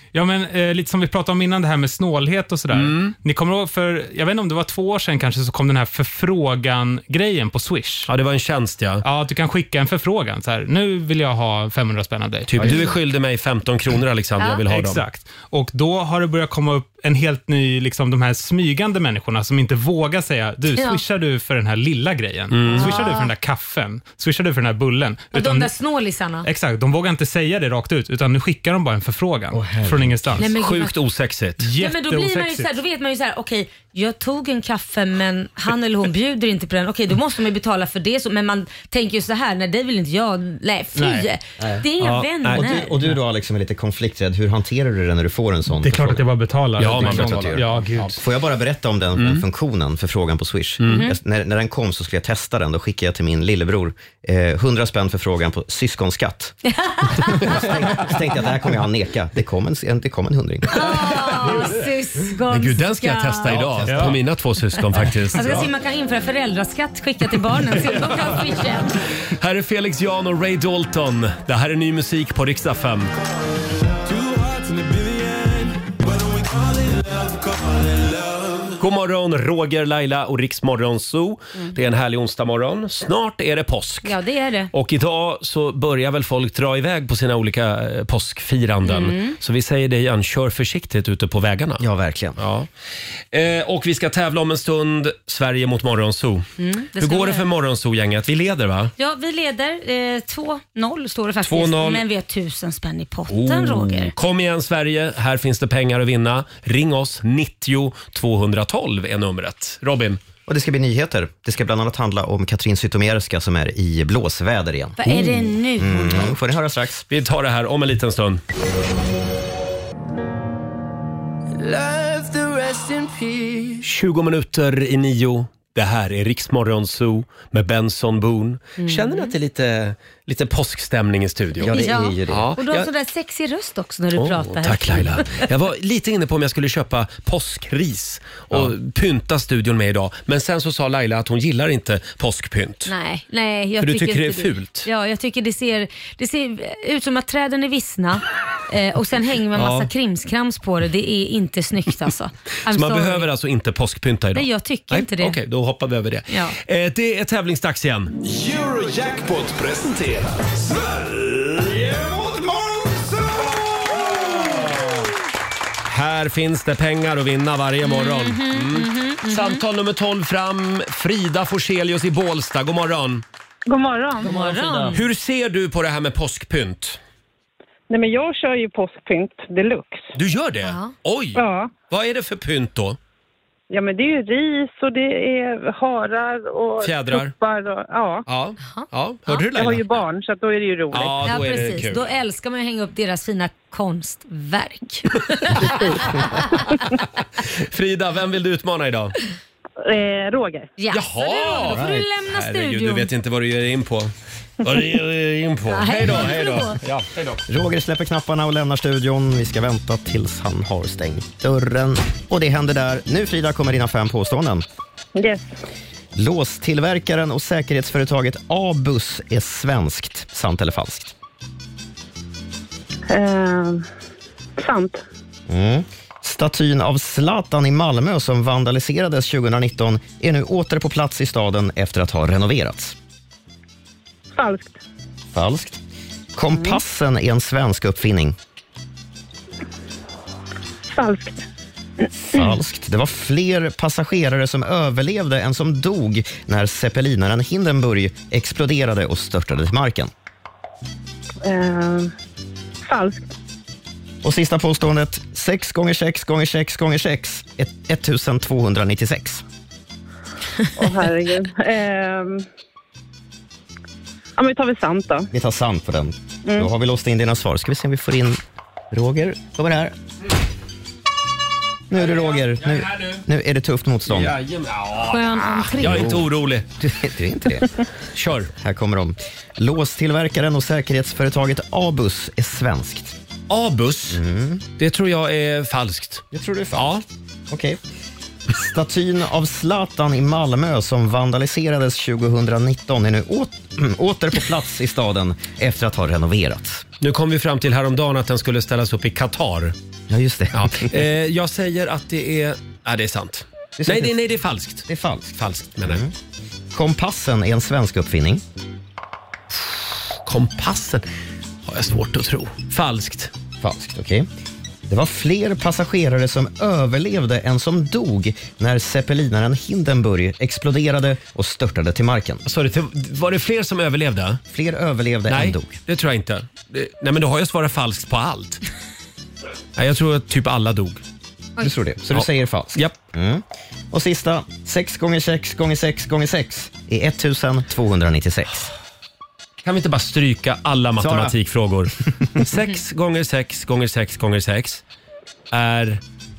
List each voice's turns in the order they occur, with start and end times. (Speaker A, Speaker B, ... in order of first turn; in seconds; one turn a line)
Speaker A: 0.1-8.1
Speaker B: 2.7-3.1
Speaker B: 8.1-9.0
Speaker A: 9.0-12.9
Speaker B: 12.5-15.0
Speaker A: 14.7-25.7
Speaker C: 20.7-21.0
Speaker B: 22.5-22.9
Speaker C: 22.7-23.3
Speaker C: 25.3-26.5
Speaker A: 26.4-30.5
Speaker D: 29.5-30.3
Speaker C: 30.4-31.0
Speaker B: 30.5-31.7
Speaker A: 31.6-32.7
Speaker C: 31.8-42.9
Speaker A: 41.0-41.3
Speaker D: 41.6-41.8
Speaker B: 42.0-42.7
Speaker D: 42.5-46.2
Speaker A: 45.8-48.2
Speaker B: 46.8-47.6
Speaker D: 46.8-56.5
Speaker B: 50.8-51.0
Speaker C: 50.9-51.1
Speaker C: 56.6-57.7
Speaker D: 57.3-60.8
Speaker C: 60.7-63.6
Speaker B: 62.5-65.7
Speaker A: 63.8-64.2
Speaker C: 65.3-69.0
Speaker B: 69.3-73.1
Speaker E: 74.0-78.7
Speaker B: 78.8-84.1
Speaker C: 84.0-84.7
Speaker B: 84.7-91.8
Speaker C: 88.8-89.4
Speaker D: 91.8-92.4
Speaker B: 92.4-92.7
Speaker B: 93.3-98.9
Speaker C: 96.6-97.4
Speaker C: 99.0-104.1
Speaker B: 101.4-102.0
Speaker B: 103.3-110.2
Speaker D: 110.5-117.0
Speaker C: 115.0-116.3
Speaker B: 117.1-118.4
Speaker E: 121.6-122.3
Speaker B: 123.8-132.9
Speaker C: 128.8-129.3
Speaker D: 131.6-132.5
Speaker C: 131.6-135.5
Speaker B: 134.2-142.9
Speaker C: 142.8-153.3
Speaker B: 143.8-144.9
Speaker B: 149.6-149.9
Speaker B: 152.7-158.2
Speaker C: 154.3-155.4
Speaker C: 156.3-156.6
Speaker F: 158.2-163.9
Speaker B: 165.9-173.2
Speaker C: 167.8-169.6
Speaker G: 173.7-174.3
Speaker C: 174.2-175.0
Speaker D: 174.3-174.9
Speaker B: 174.9-177.0
Speaker G: 177.9-180.1
Speaker B: 180.1-183.0
Speaker C: 180.6-180.9
Speaker G: 181.3-181.7
Speaker G: 183.7-188.2
Speaker B: 186.8-187.3
Speaker B: 188.3-190.0
Speaker C: 188.6-189.4
Speaker G: 189.5-191.2
Speaker B: 190.9-192.0
Speaker C: 191.2-196.8
Speaker B: 195.5-196.1
Speaker B: 197.6-199.1
Speaker G: 199.8-200.7
Speaker C: 200.8-203.1
Speaker B: 200.9-204.1
Speaker D: 201.7-202.0
Speaker B: 204.6-207.4
Speaker C: 205.7-206.8
Speaker D: 207.5-214.6
Speaker G: 215.2-215.5
Speaker D: 216.2-221.1
Speaker G: 223.1-223.8
Speaker G: 224.6-225.0
Speaker D: 225.5-232.9
Speaker G: 234.3-234.8
Speaker D: 235.3-235.8
Speaker D: 236.3-238.3
Speaker G: 240.9-241.4
Speaker D: 242.3-250.1
Speaker G: 251.4-252.1
Speaker G: 252.9-253.3
Speaker D: 254.2-259.4
Speaker G: 260.8-262.4
Speaker G: 264.4-265.3
Speaker D: 265.3-269.9
Speaker D: 271.9-274.4
Speaker B: 271.9-273.2
Speaker B: 274.1-276.6
Speaker C: 275.1-276.1
Speaker D: 275.8-276.3
Speaker D: 276.8-277.7
Speaker B: 278.1-278.5
Speaker D: 278.6-283.1
Speaker B: 283.5-284.2
Speaker D: 284.1-284.6
Speaker B: 284.8-287.0
Speaker D: 286.3-287.0
Speaker D: 287.5-287.8
Speaker D: 288.5-296.9
Speaker B: 297.0-299.7
Speaker D: 300.1-300.9
Speaker B: 300.5-306.0
Speaker D: 303.8-304.1
Speaker D: 304.9-306.1
Speaker D: 306.7-308.4
Speaker B: 309.5-311.0
Speaker B: 311.6-313.3
Speaker D: 313.6-314.3
Speaker D: 314.9-322.4
Speaker B: 322.4-324.4
Speaker D: 324.5-325.8
Speaker B: 325.3-328.6
Speaker B: 329.8-331.0
Speaker D: 331.6-338.7
Speaker B: 332.1-332.9
Speaker B: 339.6-344.8
Speaker D: 341.0-341.3
Speaker B: 345.5-346.0